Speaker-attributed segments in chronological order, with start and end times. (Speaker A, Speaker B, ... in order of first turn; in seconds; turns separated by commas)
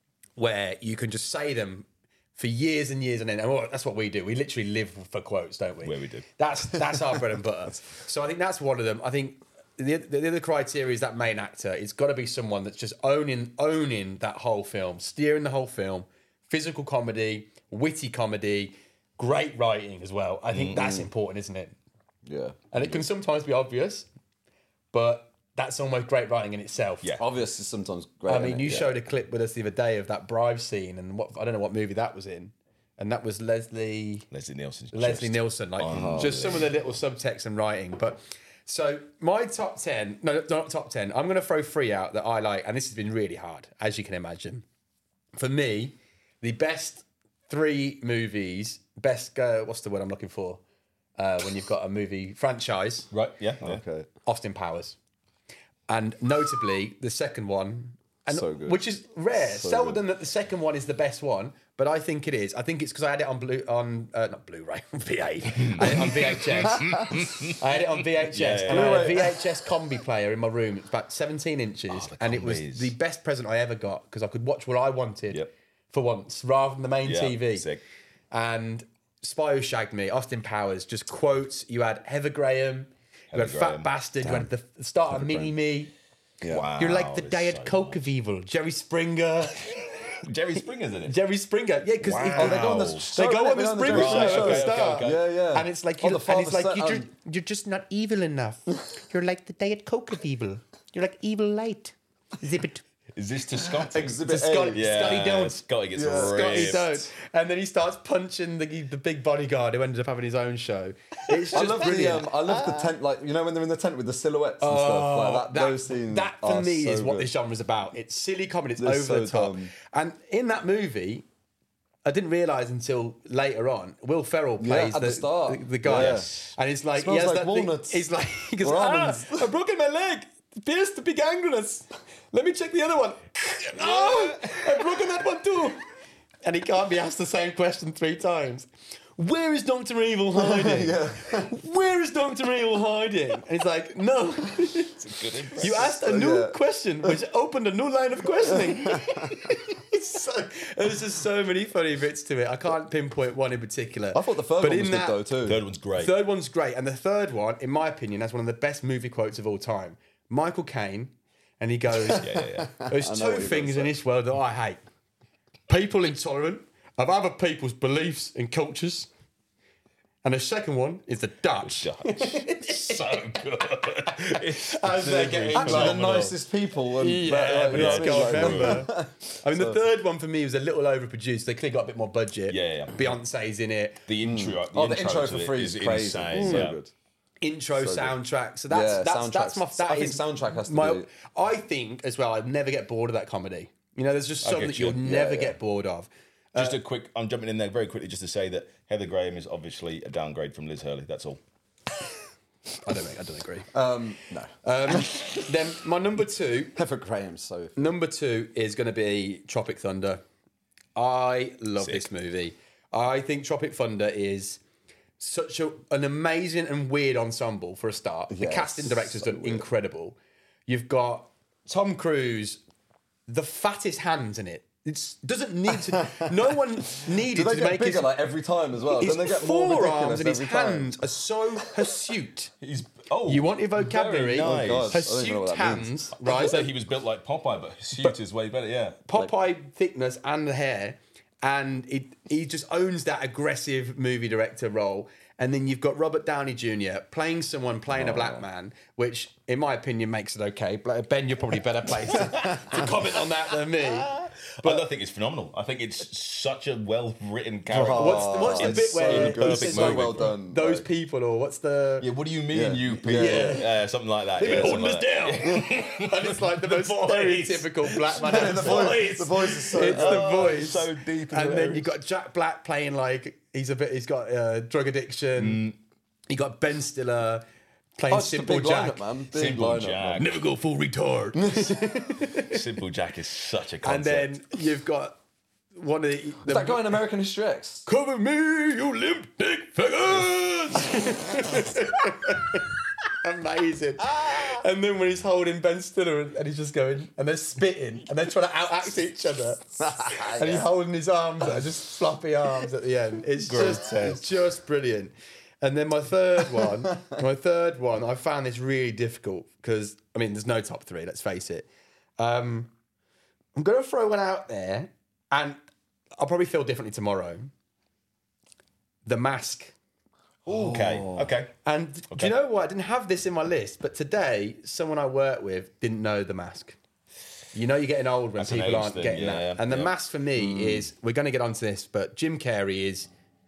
Speaker A: 0.4-21.8, Speaker B: 5.8-6.3, Speaker B: 20.5-21.0, Speaker C: 22.3-23.0, Speaker A: 22.7-24.1, Speaker A: 24.9-27.1, Speaker C: 27.2-29.0, Speaker A: 28.3-34.3, Speaker B: 34.3-36.7, Speaker A: 34.9-44.6, Speaker C: 35.9-36.6, Speaker A: 45.4-50.6, Speaker A: 51.2-53.1, Speaker B: 53.1-53.8, Speaker C: 53.6-54.1, Speaker A: 54.3-55.0, Speaker A: 55.9-77.7, Speaker C: 58.3-58.8, Speaker C: 59.5-60.0, Speaker B: 65.5-69.3, Speaker C: 68.7-69.3, Speaker B: 71.9-72.9, Speaker B: 77.1-77.8, Speaker A: 78.3-85.9, Speaker B: 83.3-83.9, Speaker C: 85.1-85.5, Speaker C: 86.4-86.7, Speaker B: 86.5-88.0, Speaker A: 86.8-89.7, Speaker B: 89.6-91.2, Speaker A: 91.1-102.8, Speaker B: 92.0-93.1, Speaker C: 92.3-97.1, Speaker B: 93.9-95.2, Speaker B: 103.2-107.0, Speaker C: 103.7-104.9, Speaker A: 104.2-105.6, Speaker C: 106.0-106.8, Speaker A: 106.1-112.7, Speaker C: 111.5-117.3, Speaker A: 114.6-121.2, Speaker C: 118.8-119.7, Speaker A: 122.0-135.8, Speaker C: 124.6-126.3, Speaker B: 125.9-126.3, Speaker C: 127.0-128.0, Speaker C: 128.6-129.5, Speaker B: 133.8-134.7, Speaker A: 136.4-145.0, Speaker C: 140.3-141.5, Speaker B: 145.0-145.9, Speaker A: 145.6-155.2, Speaker C: 145.6-146.6, Speaker C: 148.5-149.3, Speaker C: 154.1-155.6, Speaker B: 155.4-156.2, Speaker A: 156.0-162.3, Speaker B: 162.1-162.8, Speaker C: 162.1-163.9, Speaker A: 162.8-164.8, Speaker A: 165.7-169.1, Speaker A: 170.2-173.4, Speaker B: 171.6-176.3, Speaker A: 174.1-176.3, Speaker C: 175.5-179.8, Speaker A: 177.0-184.0, Speaker B: 177.7-178.8, Speaker B: 182.5-183.1, Speaker B: 184.1-186.8, Speaker C: 184.2-186.9, Speaker A: 186.4-186.7, Speaker A: 187.4-196.8, Speaker C: 187.8-188.2, Speaker C: 188.7-191.1, Speaker B: 194.4-195.0, Speaker C: 195.0-195.6, Speaker B: 196.6-201.4, Speaker A: 202.8-203.7, Speaker C: 203.7-205.4, Speaker A: 204.6-206.8, Speaker C: 206.8-207.9, Speaker A: 207.8-210.2, Speaker A: 210.9-214.6, Speaker B: 211.8-212.1, Speaker A: 215.2-222.6, Speaker C: 218.3-219.7, Speaker A: 223.3-228.1, Speaker C: 227.0-231.0, Speaker A: 229.0-232.5, Speaker B: 232.6-235.1, Speaker A: 233.3-236.7, Speaker C: 233.8-235.9, Speaker B: 236.2-239.0, Speaker A: 239.1-254.8, Speaker C: 247.9-248.4, Speaker C: 252.3-252.9, Speaker B: 252.4-252.8, Speaker B: 253.8-260.3, Speaker C: 257.7-260.9, Speaker A: 257.9-262.1, Speaker B: 262.0-269.1, Speaker C: 262.5-263.6, Speaker A: 263.1-263.7, Speaker A: 264.4-275.6, Speaker C: 264.4-264.9, Speaker C: 268.1-270.5, Speaker B: 269.8-271.9, Speaker B: 275.4-275.8, Speaker A: 276.3-277.4, Speaker A: 278.0-279.0, Speaker C: 278.1-280.2, Speaker B: 279.3-280.4, Speaker A: 280.2-282.6, Speaker B: 282.4-284.3, Speaker A: 283.8-285.2, Speaker A: 285.8-286.9, Speaker C: 286.4-287.9, Speaker A: 287.9-292.7, Speaker A: 293.2-311.7, Speaker C: 299.8-300.7, Speaker B: 303.5-304.2, Speaker A: 312.2-312.7, Speaker A: 313.6-315.6, Speaker A: 316.2-317.5, Speaker A: 319.1-319.8, Speaker C: 320.5-321.3, Speaker B: 320.5-321.5, Speaker A: 321.6-326.8, Speaker A: 327.5-333.1, Speaker B: 328.4-329.9, Speaker C: 330.4-330.9